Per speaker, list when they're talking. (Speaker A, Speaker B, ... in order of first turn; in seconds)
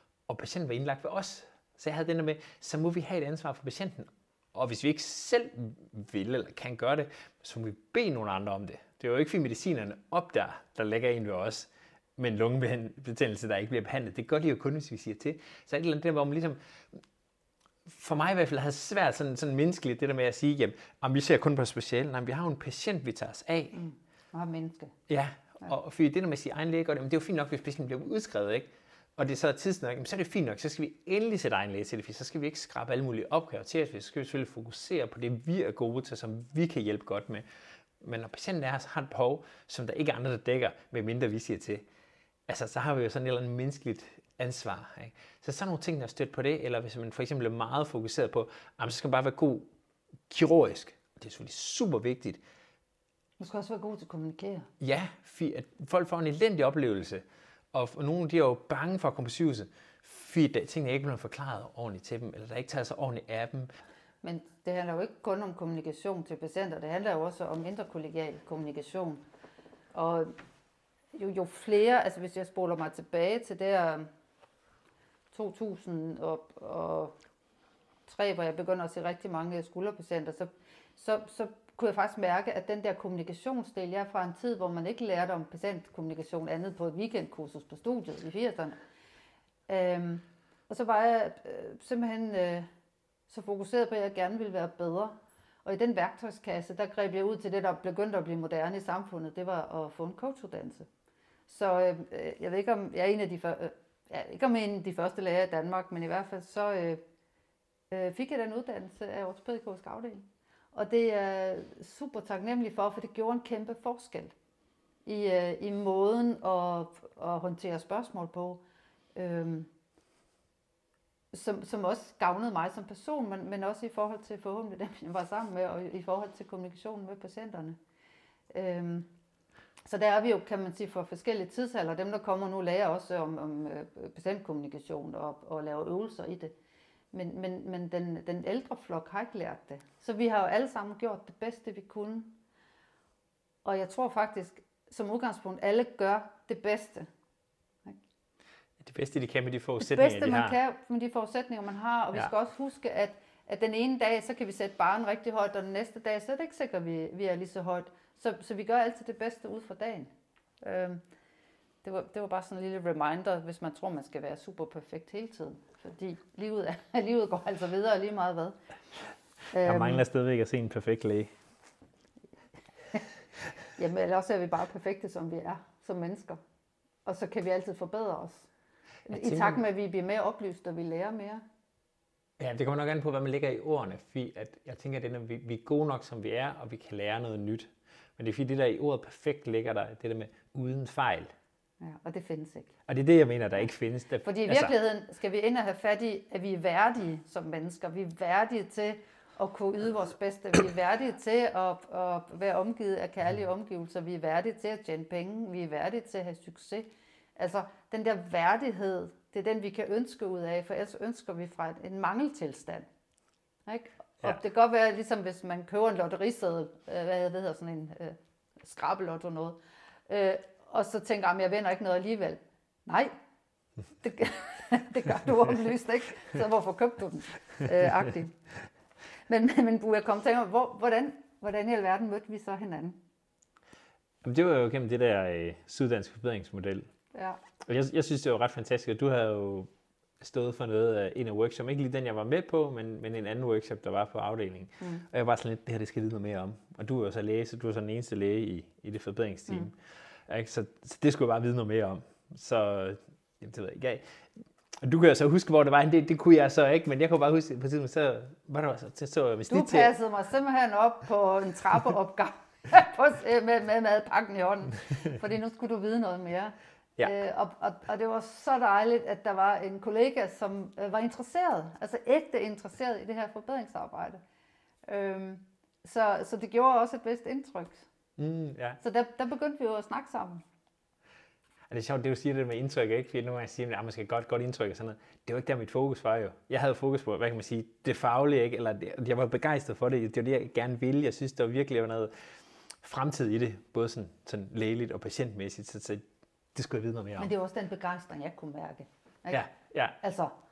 Speaker A: 0.3-17.0, 17.9-23.8, 25.1-37.4, 38.0-41.9, 42.5-49.7, 50.3-52.4, 54.8-63.7, 148.8-150.6, 169.6-171.3, 179.1-179.6, 182.4-191.3, 192.9-194.7, 234.2-236.8, 237.6-254.1, 254.7-259.9, 278.2-278.8, 281.7-292.1, 292.8-296.0, 296.5-297.3, 299.3-300.0
Speaker B: 23.7-24.9, 53.4-54.7, 64.2-69.2, 69.9-70.3, 71.1-74.1, 75.3-77.1, 78.1-88.8, 89.7-92.7, 93.3-100.9, 101.5-107.0, 107.9-114.3, 115.0-118.6, 119.2-119.7, 121.3-127.8, 128.5-129.1, 129.8-136.5, 137.1-142.3, 143.6-147.1, 149.8-160.1, 160.6-161.0, 161.8-168.6, 169.5-170.0, 173.8-176.4, 177.0-178.5, 179.1-181.4, 191.8-192.7, 194.2-212.9, 213.7-223.1, 224.0-228.4, 229.3-233.0, 237.1-237.4, 259.5-274.2, 274.9-277.9, 278.8-280.4, 297.2-299.4, 300.0-300.3